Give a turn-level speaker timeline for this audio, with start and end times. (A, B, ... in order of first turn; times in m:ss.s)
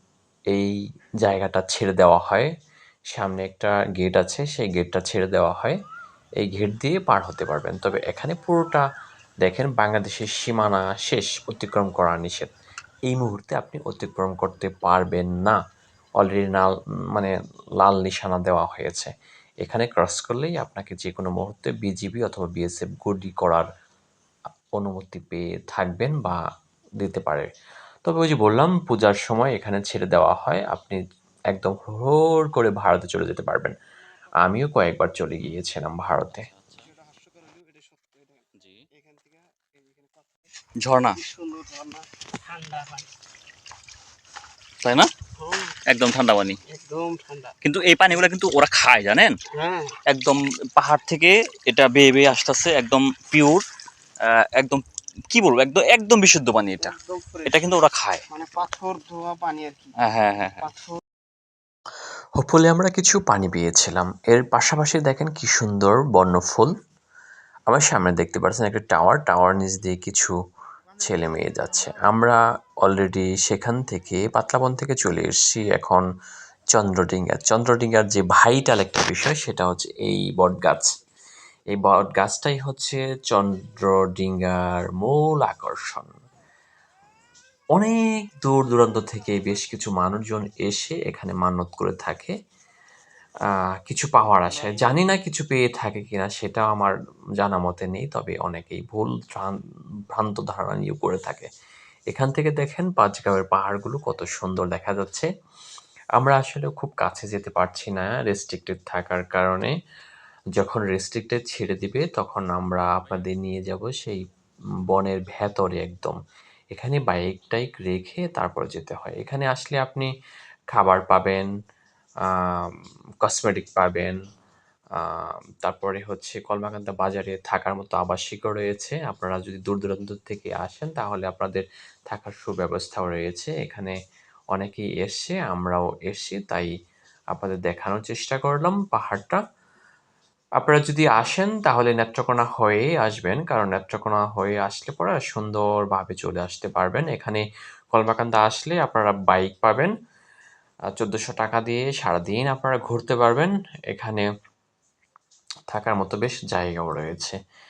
0:01.2-0:02.5 A
0:03.1-0:05.8 A
0:06.4-0:08.8 A
0:09.4-0:12.5 A
0:13.1-0:15.6 A
0:16.2-0:19.1 A
0:19.6-0:23.7 A
0:24.8-0:26.4 A
0:27.0-0:27.5 A
0:28.0-0:31.0 A
0:31.5-0:33.7 A
0:34.4-0:36.5 A
0:36.4-0:36.9 B
0:36.9-0:40.3 C
0:38.6-0:38.8 B
0:40.8-0:41.2 B
0:41.1-0:43.1 C
0:44.8-0:45.1 B
0:45.4-0:45.7 C
0:45.9-0:46.6 B
0:46.7-0:47.5 C
0:47.6-0:49.4 B
0:49.5-0:50.0 C
0:50.1-0:53.6 B
0:54.2-0:58.2 B
0:56.8-0:57.6 C
0:58.3-0:59.9 C
1:00.0-1:00.7 B
1:00.6-1:01.0 C
1:02.4-1:06.7 A
1:07.7-1:10.3 A
1:11.0-1:16.0 A
1:16.7-1:20.9 A
1:21.7-1:26.1 A
1:27.8-1:32.3 A
1:33.8-1:39.5 A
1:40.1-1:41.5 A
1:42.1-1:45.3 A
1:46.2-1:49.7 A
1:50.6-1:54.2 A
1:54.9-1:56.2 A
1:56.7-2:00.1 A
2:00.7-2:01.5 A
2:02.4-2:04.1 A
2:05.0-2:13.9 A
2:14.5-2:16.7 A
2:17.3-2:19.4 A
2:20.6-2:29.9 A
2:31.0-2:34.3 A
2:35.7-2:37.4 A